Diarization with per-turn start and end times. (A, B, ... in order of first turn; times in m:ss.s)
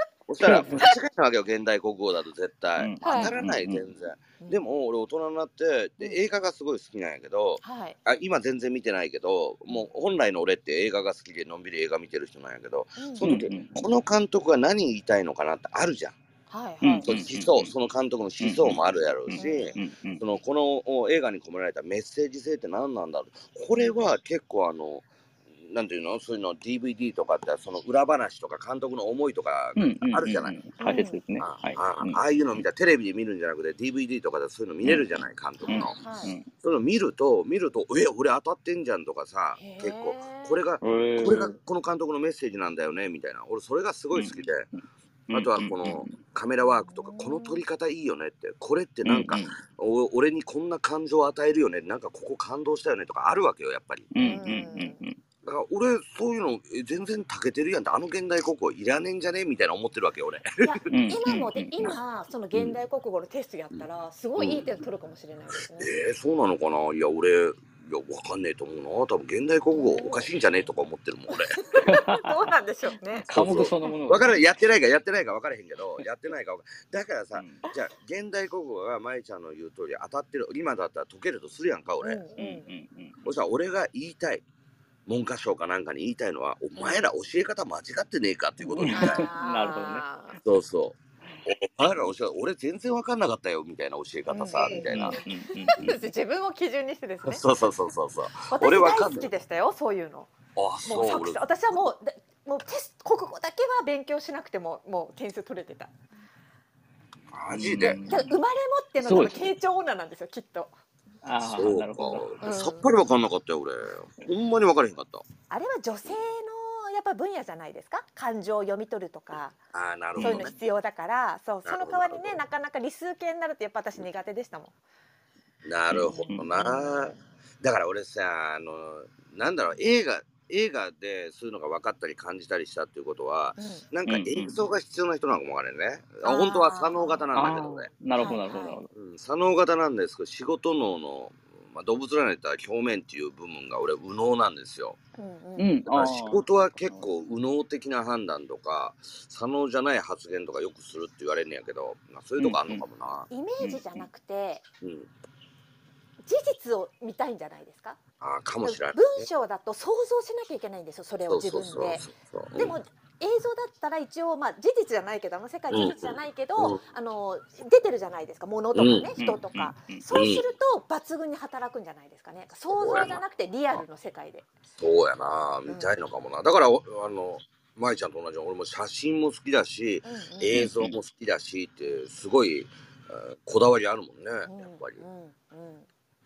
0:00.3-0:16.2 A
0:00.4-0:00.9 B
0:02.8-0:03.8 B
0:03.0-0:03.3 C
0:07.6-0:08.0 C
0:13.0-0:13.5 C
0:13.2-0:13.8 B
0:16.5-0:17.1 C
0:16.8-0:17.7 B
0:17.0-0:30.6 A
0:18.4-0:20.2 B
0:19.4-0:19.8 C
0:23.7-0:24.0 C
0:29.8-0:32.6 B
0:30.8-0:31.2 C
0:31.4-0:44.7 A
0:34.8-0:35.1 B
0:35.6-0:36.3 C
0:35.7-0:36.5 B
0:39.6-0:40.6 C
0:40.8-0:41.6 B
0:44.1-0:44.4 B
0:45.3-0:46.1 B
0:45.3-0:54.1 A
0:46.8-0:47.6 C
0:49.0-0:49.5 B
0:54.1-0:55.2 B
0:54.2-0:55.0 C
0:55.4-1:00.7 A
1:00.6-1:05.9 C
1:00.9-1:01.9 B
1:02.5-1:02.8 A
1:04.4-1:04.6 A
1:05.7-1:11.6 A
1:09.7-1:10.3 C
1:11.3-1:14.0 C
1:11.8-1:12.3 B
1:13.2-1:14.5 B
1:13.3-1:22.2 A
1:17.3-1:17.6 B
1:22.0-1:22.7 C
1:22.4-1:23.2 B
1:23.2-1:24.4 A
1:25.0-1:29.3 A
1:26.8-1:27.0 C
1:28.7-1:30.0 B
1:28.9-1:30.4 C
1:30.4-1:35.2 A
1:34.3-1:37.4 C
1:34.6-1:36.0 B
1:37.2-1:39.3 A
1:38.5-1:40.3 C
1:40.6-1:41.8 A
1:40.8-1:45.9 C
1:47.3-1:48.0 A
1:47.5-1:48.3 B
1:48.1-1:50.7 C
1:49.0-1:49.5 B
1:51.2-1:52.3 B
1:51.5-1:55.2 A
1:52.4-1:52.9 C
1:55.5-1:59.6 C
1:59.7-2:00.5 A
2:00.2-2:00.5 B
2:00.2-2:04.7 C
2:01.6-2:02.4 A
2:05.6-2:17.9 A
2:05.9-2:06.5 B
2:06.0-2:07.2 C
2:13.6-2:13.8 C
2:14.0-2:14.6 B
2:16.2-2:17.2 C
2:17.3-2:18.9 B
2:18.2-2:18.8 C
2:18.9-2:25.0 A
2:25.2-2:25.7 C
2:25.6-2:27.1 B
2:25.9-2:33.3 A
2:32.4-2:32.8 B
2:33.3-2:34.6 C
2:33.6-2:34.0 B
2:34.8-2:35.1 A
2:36.2-2:38.0 C
2:38.2-2:39.2 A
2:38.6-2:54.5 C
2:41.3-2:42.8 A
2:45.7-2:46.8 A
2:48.7-2:49.1 A
2:49.2-2:50.0 B
2:50.1-2:50.4 A
2:52.7-2:53.2 A
2:54.8-3:05.0 A
2:55.6-2:55.9 C
3:00.0-3:00.6 C
3:00.5-3:00.9 B
3:04.4-3:05.9 C